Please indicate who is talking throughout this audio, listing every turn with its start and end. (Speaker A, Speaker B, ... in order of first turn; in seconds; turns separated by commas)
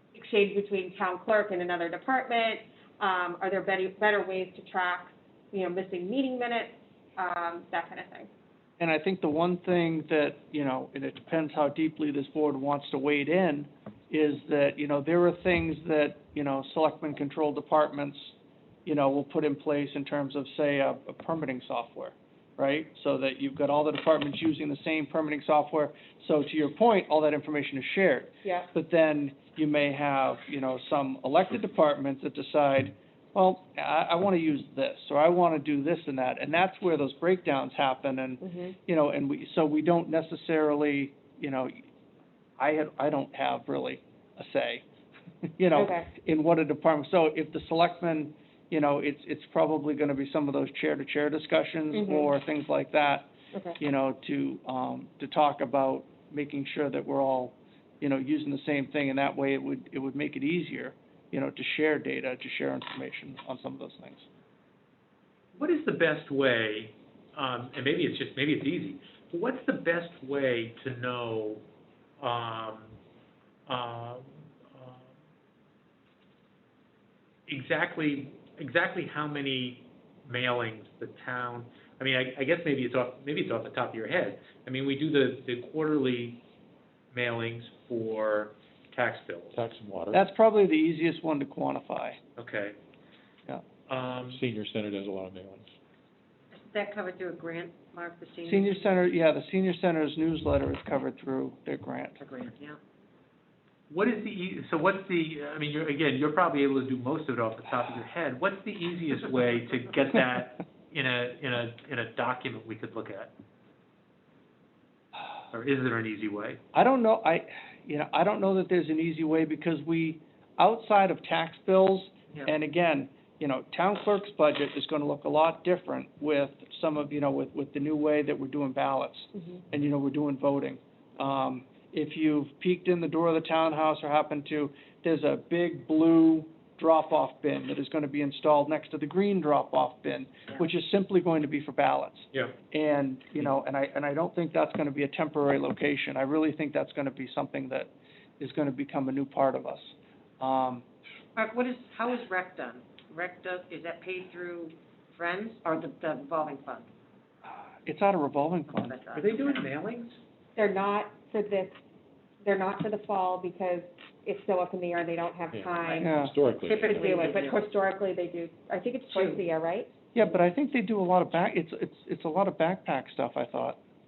Speaker A: 0.1-8.3, Speaker B: 8.8-18.3, Speaker B: 18.9-41.9, Speaker A: 38.4-38.8, Speaker B: 42.6-44.9, Speaker B: 45.6-53.3, Speaker A: 45.8-46.1, Speaker A: 51.9-52.3, Speaker B: 53.8-64.3, Speaker C: 65.5-71.6, Speaker C: 72.2-72.9, Speaker C: 73.7-75.0, Speaker C: 77.5-86.4, Speaker C: 87.1-89.6, Speaker D: 89.5-90.2, Speaker B: 90.1-92.2, Speaker C: 92.4-92.8, Speaker C: 93.9-94.4, Speaker D: 94.3-95.7, Speaker E: 96.5-98.9, Speaker B: 98.5-102.2, Speaker E: 102.2-102.8, Speaker C: 103.9-113.3, Speaker C: 115.5-116.6, Speaker B: 116.7-150.8, Speaker E: 151.4-156.9, Speaker B: 157.5-159.0, Speaker E: 158.7-159.6, Speaker C: 159.1-160.2, Speaker A: 160.6-161.8, Speaker A: 162.4-166.1, Speaker D: 165.5-166.9, Speaker B: 166.0-166.3, Speaker E: 166.6-167.6, Speaker A: 166.9-169.9, Speaker E: 169.1-169.4, Speaker B: 170.1-173.8